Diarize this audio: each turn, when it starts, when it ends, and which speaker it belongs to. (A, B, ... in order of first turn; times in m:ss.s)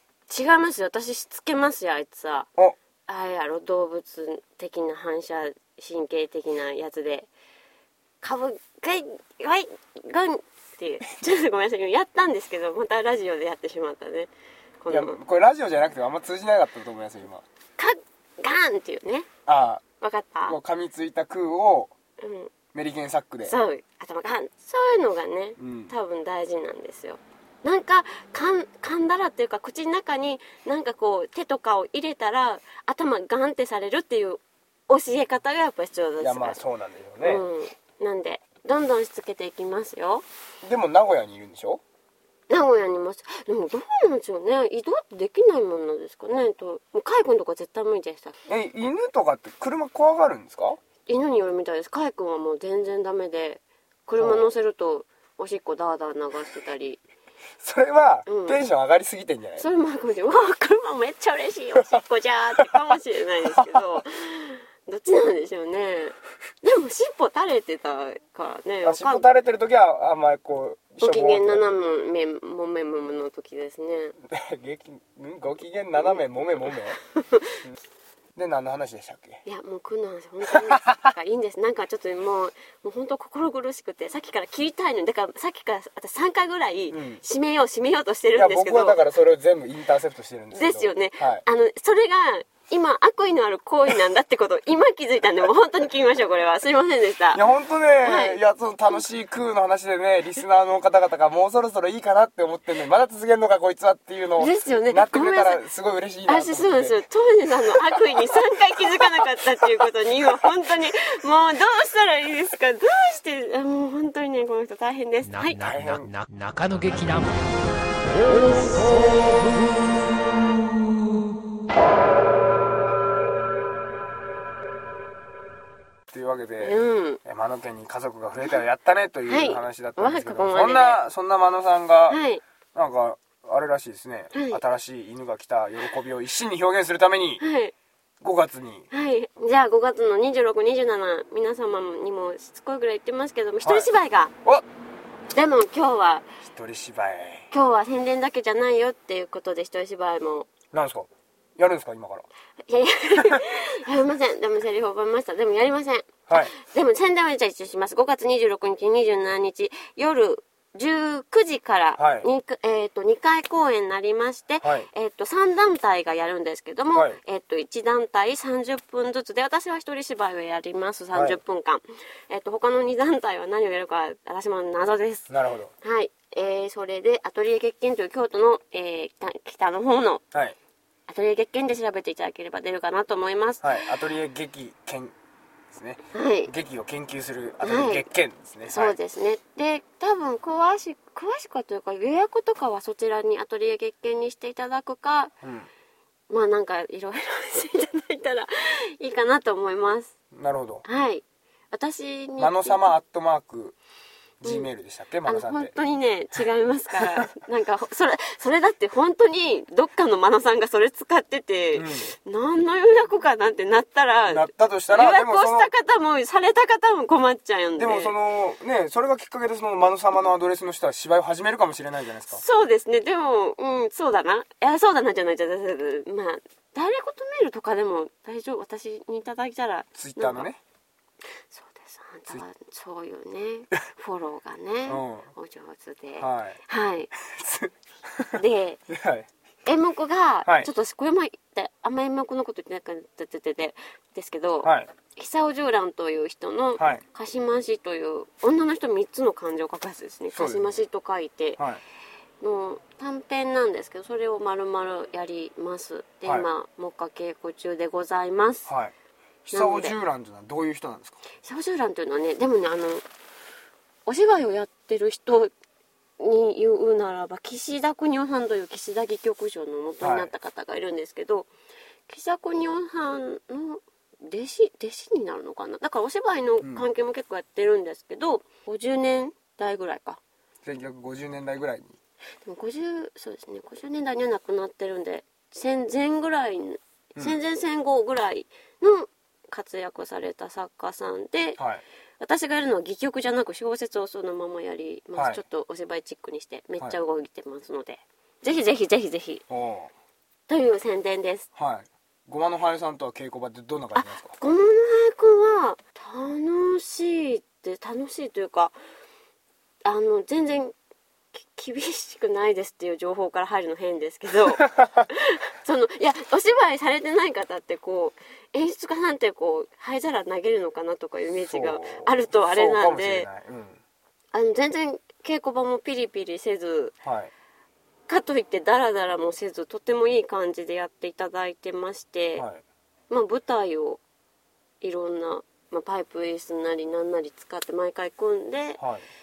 0:00.3-0:02.5 A
0:03.1-0:07.3 A
0:08.2-0:14.3 A
0:14.8-0:15.2 A
0:14.9-0:17.4 B
0:17.8-0:19.3 A
0:19.5-0:19.8 B
0:20.0-0:20.6 A
0:20.5-0:21.9 B
0:22.2-0:22.5 A
0:22.7-0:23.6 B
0:23.5-0:36.6 A
0:25.6-0:25.9 B
0:36.2-0:37.4 B
0:37.2-0:40.2 A
0:40.6-0:41.8 B
0:42.5-0:48.4 A
0:48.5-0:50.8 B
0:51.1-0:57.0 A
0:54.2-0:54.5 B
0:57.6-0:59.6 B
0:58.3-0:58.6 A
0:59.6-1:09.2 A
1:02.6-1:02.8 B
1:03.5-1:03.8 B
1:08.8-1:11.7 B
1:11.0-1:14.2 A
1:14.3-1:17.0 B
1:17.2-1:17.6 A
1:18.4-1:19.4 B
1:19.4-1:29.0 A
1:20.5-1:21.0 B
1:26.9-1:27.2 B
1:28.4-1:31.4 B
1:30.5-1:37.4 A
1:37.3-1:47.0 B
1:38.0-1:38.4 A
1:44.4-1:45.6 A
1:46.3-1:55.6 A
1:47.9-1:49.0 B
1:55.2-1:57.6 C
1:55.6-1:56.1 B
1:58.1-1:59.0 C
2:06.1-2:12.2 B
2:06.6-2:07.2 A
2:09.3-2:11.0 A
2:12.1-2:12.4 A
2:12.8-2:17.4 B
2:14.3-2:14.6 A
2:17.4-2:17.7 A
2:18.2-2:18.9 B
2:18.9-2:24.3 A
2:23.6-2:23.9 B
2:25.3-2:26.3 A
2:26.4-2:27.5 B
2:27.5-2:30.5 A
2:30.7-2:32.3 B
2:32.7-2:55.3 A
2:42.0-2:42.3 B
2:44.6-2:44.9 B
2:51.1-2:51.4 B
2:55.3-2:55.7 B
2:55.8-3:00.2 A
3:01.1-3:03.9 A
3:03.6-3:05.1 B
3:05.7-3:09.0 B
3:06.1-3:06.5 A
3:07.6-3:08.1 A
3:08.7-3:15.3 A
3:15.4-3:15.7 B
3:16.3-3:20.1 A
3:20.3-3:20.8 B
3:20.8-3:22.9 A
3:22.4-3:23.8 B
3:24.4-3:25.7 B
3:24.4-3:24.7 A
3:25.3-3:38.1 A
3:31.7-3:32.1 B
3:34.3-3:35.7 B
3:37.8-3:42.4 B
3:42.3-3:50.5 A
3:50.0-3:50.6 B
3:51.5-3:57.1 A
3:54.9-3:55.3 B
3:56.2-3:56.6 B
3:57.2-3:59.3 B
3:58.4-3:58.8 A
3:59.7-4:11.6 A
4:00.4-4:00.7 B
4:04.6-4:04.9 B
4:06.8-4:07.0 B
4:10.3-4:10.8 B
4:12.4-4:18.7 A
4:18.7-4:18.9 B
4:19.5-4:21.2 B
4:19.5-4:20.0 A
4:21.4-4:23.0 A
4:24.1-4:25.5 A
4:26.2-4:31.5 A
4:30.0-4:30.3 B
4:32.1-4:40.2 A
4:36.6-4:36.9 B
4:40.6-4:42.0 B
4:42.4-4:51.6 A
4:52.2-4:59.4 A
4:55.2-4:55.4 B
4:59.5-4:59.9 B
5:00.5-5:01.5 A
5:01.6-5:04.4 B
5:04.0-5:08.8 A
5:09.8-5:10.7 A
5:11.4-5:23.3 A
5:14.6-5:15.1 B
5:21.4-5:23.8 B
5:24.3-5:27.0 A
5:27.0-5:27.3 B
5:28.1-5:32.5 A
5:33.1-5:34.0 A
5:34.8-5:38.8 A
5:38.8-5:39.0 B